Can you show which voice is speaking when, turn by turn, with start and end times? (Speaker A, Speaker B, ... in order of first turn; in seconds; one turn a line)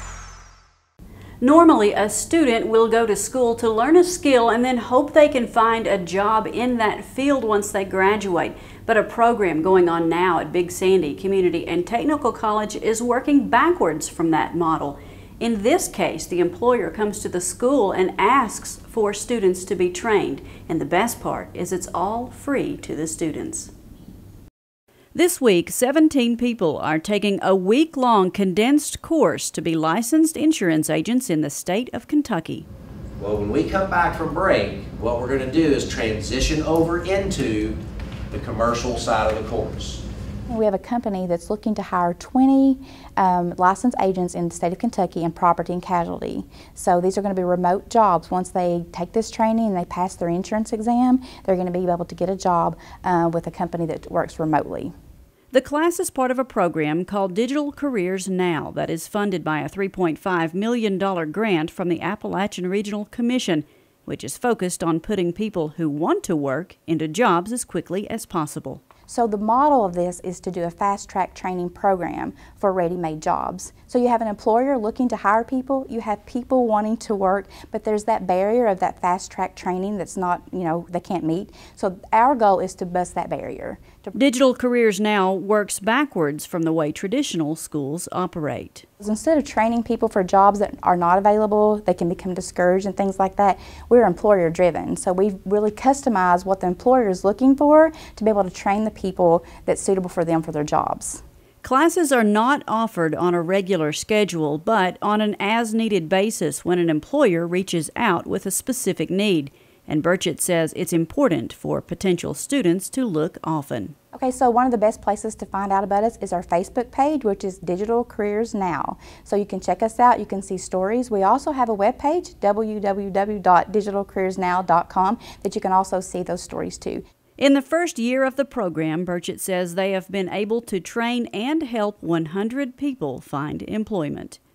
Speaker A: 1.4-23.7
Speaker A: 25.1-32.6
Speaker B: 33.2-37.8
Speaker B: 38.3-40.0
Speaker C: 40.5-54.9
Speaker A: 55.5-68.8
Speaker C: 69.1-84.1
Speaker A: 84.1-88.8
Speaker C: 89.0-101.2
Speaker A: 101.6-113.9
Speaker C: 114.1-127.0
Speaker A: 127.4-134.4